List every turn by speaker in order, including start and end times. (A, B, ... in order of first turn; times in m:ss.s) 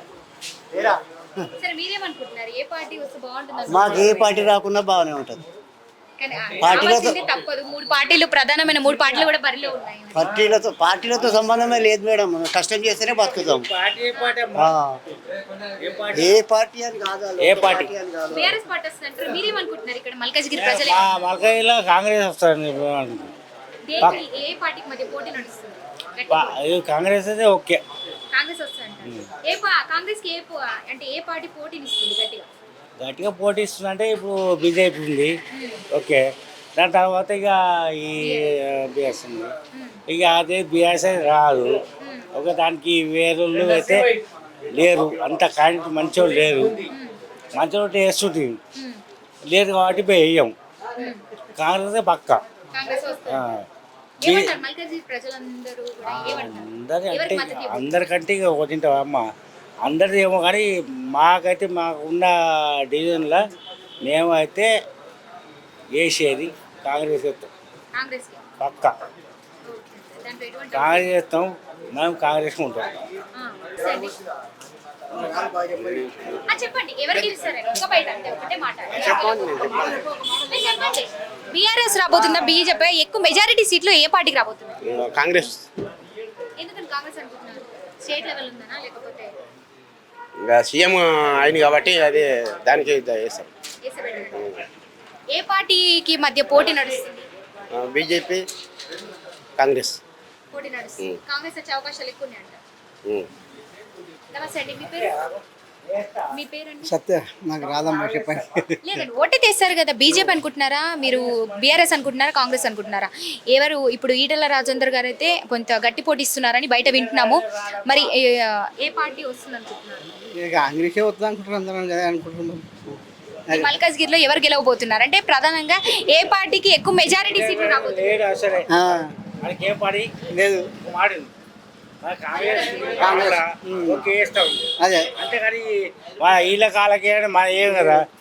0:01.6-0:04.6 A
0:03.7-0:05.4 B
0:06.2-0:10.2 A
0:06.6-0:07.2 B
0:10.1-0:13.6 B
0:13.2-0:14.7 C
0:14.1-0:14.4 A
0:14.5-0:15.0 B
0:15.8-0:16.4 C
0:16.1-0:18.6 B
0:17.4-0:17.9 C
0:18.3-0:21.4 A
0:20.5-0:23.3 C
0:23.8-0:26.5 A
0:26.3-0:27.8 C
0:28.3-0:32.5 A
0:33.0-0:35.3 C
0:35.5-0:35.8 A
0:35.9-0:36.2 C
0:36.8-0:39.5 C
0:38.2-0:38.5 A
0:39.7-0:40.0 A
0:40.1-0:41.8 C
0:42.0-0:42.3 A
0:42.3-0:44.1 C
0:44.7-0:46.8 C
0:46.9-0:47.1 A
0:47.5-0:48.6 C
0:48.8-0:49.0 A
0:49.5-0:50.5 C
0:51.0-0:51.2 A
0:51.6-0:52.4 C
0:52.7-0:53.5 A
0:53.3-0:53.6 C
0:54.2-0:57.9 A
0:54.2-0:54.5 C
0:56.1-0:59.2 C
0:59.8-1:02.3 C
1:02.9-1:03.4 C
1:04.0-1:04.7 C
1:06.0-1:07.5 C
1:07.9-1:08.4 A
1:08.6-1:08.9 C
1:09.7-1:11.1 A
1:10.7-1:12.9 C
1:13.4-1:14.1 A
1:15.2-1:16.4 D
1:16.5-1:19.7 A
1:18.9-1:20.1 D
1:20.5-1:24.8 A
1:24.8-1:25.6 D
1:26.6-1:29.3 A
1:30.4-1:33.5 D
1:33.8-1:34.4 A
1:35.3-1:37.2 A
1:37.7-1:38.4 D
1:39.6-1:40.0 D
1:40.5-1:42.6 A
1:44.3-1:45.1 A
1:46.3-1:46.9 A
1:46.8-1:48.7 E
1:48.8-2:00.0 A
2:00.3-2:02.8 E
2:03.5-2:08.2 A
2:07.3-2:08.6 C
2:08.7-2:09.1 E
2:09.4-2:10.1 C
2:10.3-2:10.7 E
2:10.8-2:11.3 C
2:12.0-2:18.0 C
2:13.0-2:14.0 E
2:14.8-2:15.0 E